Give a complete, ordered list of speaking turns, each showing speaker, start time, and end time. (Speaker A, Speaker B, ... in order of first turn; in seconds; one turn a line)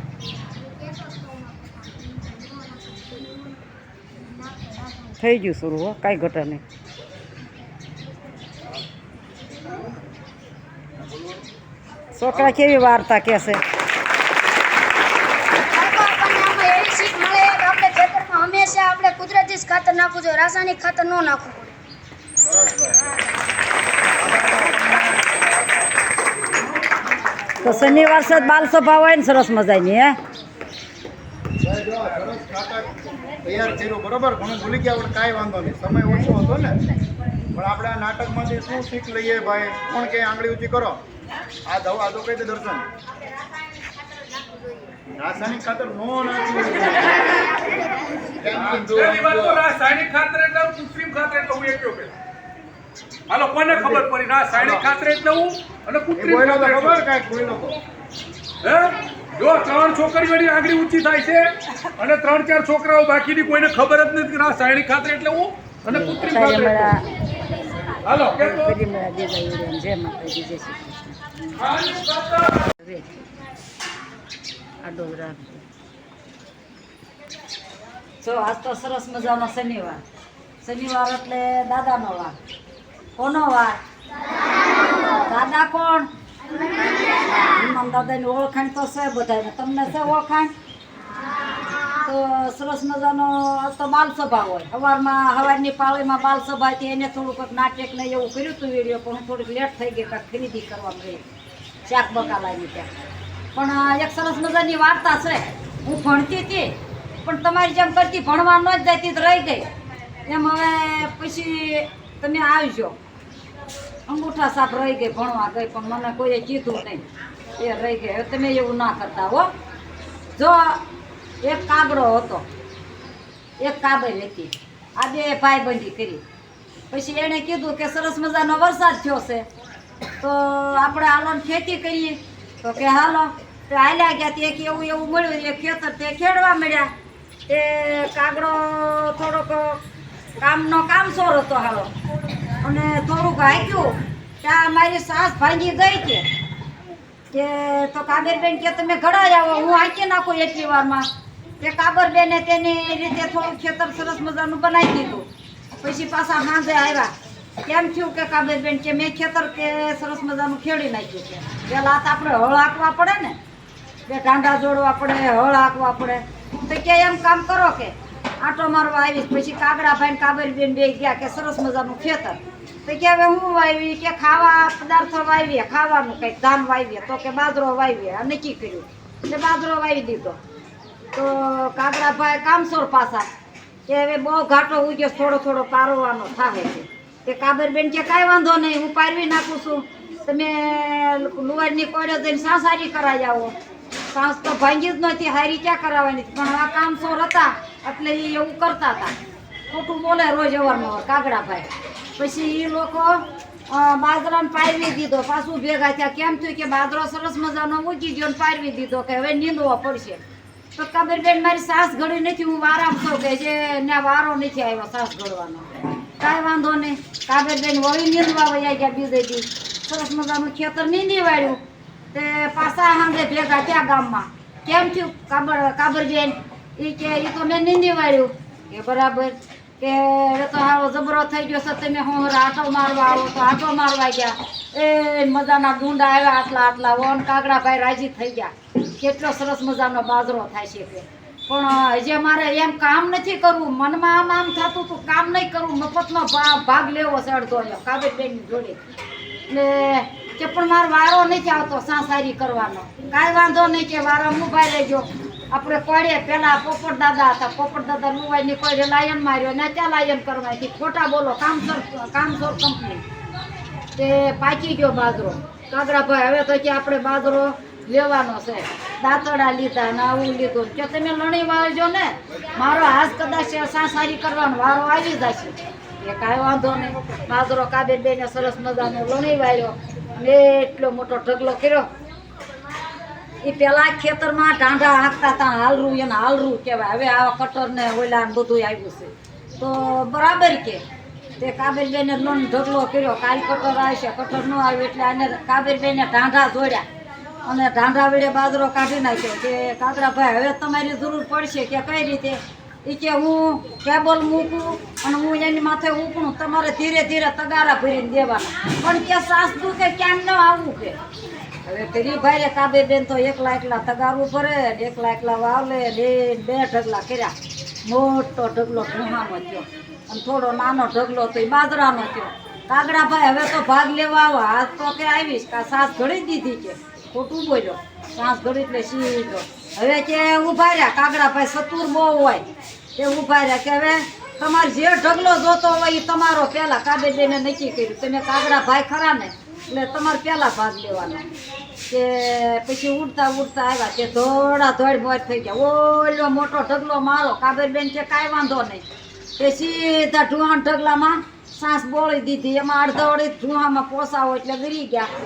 Speaker A: 0.5-3.5
Speaker A: 4.3-5.1
Speaker B: 5.2-6.6
Speaker B: 12.1-13.6
Speaker A: 15.6-21.8
Speaker C: 22.4-23.0
Speaker C: 24.1-25.1
Speaker B: 27.6-30.1
Speaker C: 31.6-36.8
Speaker C: 37.5-41.0
Speaker C: 41.6-42.9
Speaker C: 45.0-47.3
Speaker A: 47.6-48.2
Speaker C: 48.3-49.6
Speaker D: 48.7-52.1
Speaker D: 53.3-57.0
Speaker C: 53.7-54.8
Speaker C: 56.1-57.8
Speaker D: 58.6-66.9
Speaker B: 65.8-67.1
Speaker D: 68.0-68.7
Speaker B: 68.3-70.9
Speaker D: 71.6-72.7
Speaker B: 72.8-73.1
Speaker B: 74.8-75.6
Speaker B: 78.2-80.0
Speaker B: 80.6-82.3
Speaker B: 83.2-83.8
Speaker B: 85.2-86.1
Speaker B: 87.2-90.5
Speaker B: 91.9-101.2
Speaker B: 101.8-102.9
Speaker B: 103.5-109.7
Speaker B: 110.2-113.0
Speaker B: 114.1-117.0
Speaker B: 117.5-119.5
Speaker B: 120.3-120.8
Speaker B: 121.4-122.5
Speaker B: 123.6-126.2
Speaker B: 126.9-129.4
Speaker B: 130.2-136.9
Speaker B: 137.5-139.8
Speaker B: 140.4-141.9
Speaker B: 142.6-146.3
Speaker B: 147.3-151.1
Speaker B: 151.6-157.1
Speaker B: 157.6-163.4
Speaker B: 164.1-180.4
Speaker B: 181.1-183.3
Speaker B: 183.9-193.5
Speaker B: 194.1-199.2
Speaker B: 199.7-210.2
Speaker B: 210.7-221.6
Speaker B: 222.1-248.8
Speaker B: 249.5-263.0
Speaker B: 263.9-281.9
Speaker B: 283.4-290.8
Speaker B: 291.4-296.9
Speaker B: 297.4-311.0
Speaker B: 311.6-317.3
Speaker B: 317.8-332.4
Speaker B: 332.9-341.2
Speaker B: 341.9-348.8
Speaker B: 349.4-355.1